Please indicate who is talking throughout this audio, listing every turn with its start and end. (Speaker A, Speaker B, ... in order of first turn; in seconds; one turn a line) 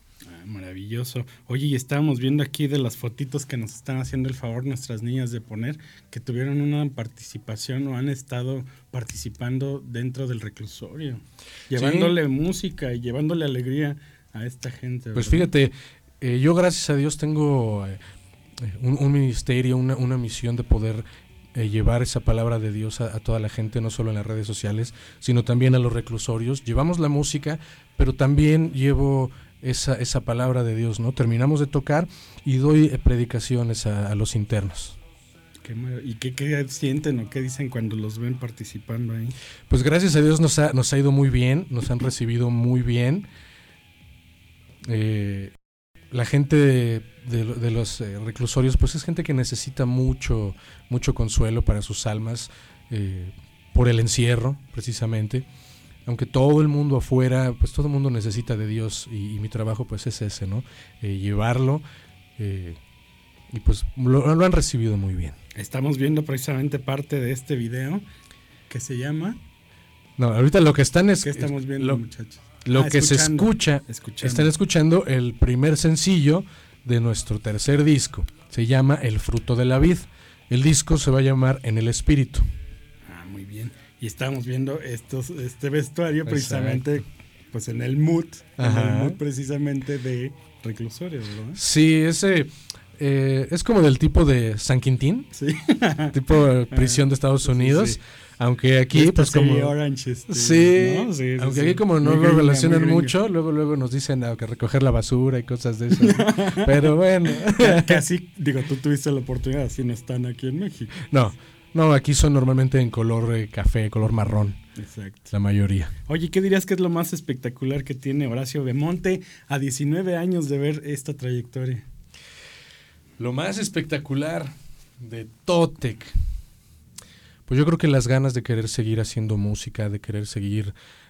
Speaker A: 0.2-15.5
Speaker B: 11.7-12.2
Speaker B: 15.1-18.0
Speaker B: 18.6-35.0
Speaker A: 35.6-39.3
Speaker B: 39.7-43.3
Speaker B: 44.9-45.5
Speaker B: 46.1-55.4
Speaker B: 56.0-61.8
Speaker B: 62.4-62.8
Speaker B: 63.5-65.4
Speaker A: 65.5-68.0
Speaker A: 68.7-69.4
Speaker B: 70.2-72.0
Speaker A: 71.2-74.5
Speaker B: 72.6-82.5
Speaker A: 83.0-91.6
Speaker B: 86.2-86.9
Speaker B: 88.6-89.2
Speaker B: 91.5-95.3
Speaker A: 95.3-96.2
Speaker B: 96.1-99.7
Speaker A: 96.7-98.0
Speaker A: 98.9-103.1
Speaker B: 100.3-108.0
Speaker A: 106.0-106.9
Speaker A: 107.5-111.0
Speaker B: 111.1-114.6
Speaker A: 114.8-115.3
Speaker B: 115.3-115.9
Speaker A: 116.1-121.8
Speaker B: 123.2-126.1
Speaker B: 127.5-130.7